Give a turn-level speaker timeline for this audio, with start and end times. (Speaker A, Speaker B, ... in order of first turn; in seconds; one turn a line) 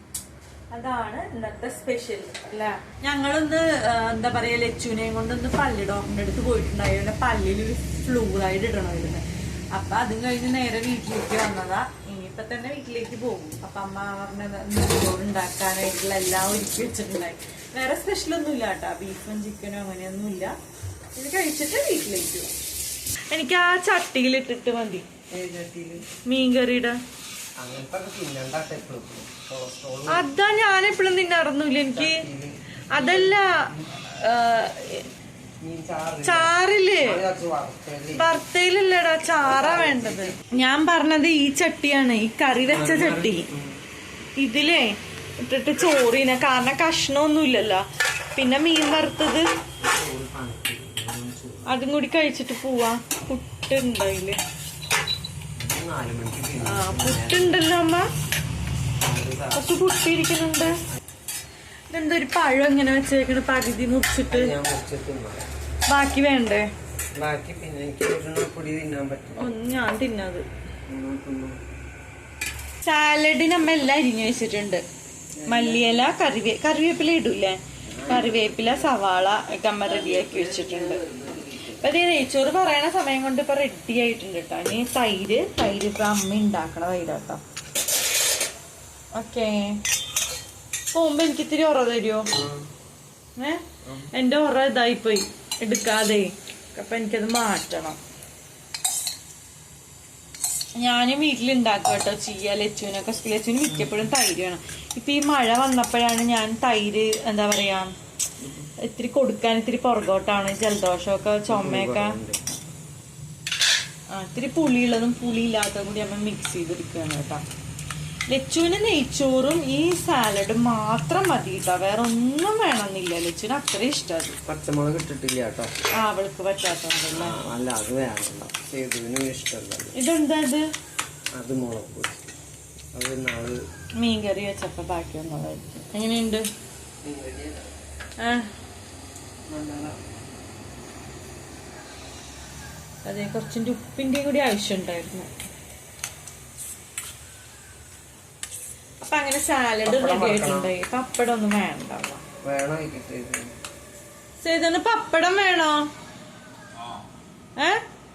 Speaker A: 0.7-20.5
Speaker A: 21.1-22.5
Speaker A: 23.3-25.1
Speaker B: 25.3-26.0
Speaker A: 26.3-27.0
Speaker B: 27.6-30.3
Speaker A: 30.1-32.2
Speaker B: 31.9-33.4
Speaker A: 32.9-35.1
Speaker B: 35.6-38.4
Speaker A: 36.2-37.2
Speaker A: 38.1-43.5
Speaker B: 39.4-40.5
Speaker B: 42.7-43.8
Speaker A: 44.4-49.5
Speaker B: 49.8-51.8
Speaker A: 51.7-54.4
Speaker B: 55.6-57.6
Speaker A: 56.6-58.1
Speaker B: 59.0-59.7
Speaker A: 59.5-60.7
Speaker A: 61.9-64.5
Speaker B: 64.3-65.5
Speaker A: 65.9-66.7
Speaker B: 67.2-69.5
Speaker A: 69.4-70.5
Speaker B: 70.9-71.6
Speaker A: 72.8-74.8
Speaker B: 75.3-76.2
Speaker A: 75.5-81.0
Speaker B: 77.9-79.0
Speaker B: 79.8-81.8
Speaker A: 81.8-87.4
Speaker A: 89.1-89.8
Speaker A: 90.9-92.3
Speaker B: 92.3-92.6
Speaker A: 93.4-98.0
Speaker B: 93.8-94.1
Speaker A: 100.8-107.9
Speaker B: 108.4-108.7
Speaker A: 108.8-112.2
Speaker B: 111.5-112.4
Speaker A: 114.1-117.4
Speaker A: 118.3-124.4
Speaker B: 124.5-125.7
Speaker A: 126.0-127.3
Speaker B: 127.1-129.9
Speaker A: 129.9-130.6
Speaker B: 131.3-132.2
Speaker B: 132.9-133.6
Speaker A: 134.0-136.4
Speaker B: 137.0-137.7
Speaker A: 138.2-138.5
Speaker B: 139.5-139.9
Speaker A: 143.0-145.3
Speaker A: 149.0-152.2
Speaker B: 149.8-150.7
Speaker B: 152.4-153.5
Speaker A: 154.4-155.9
Speaker A: 157.6-157.8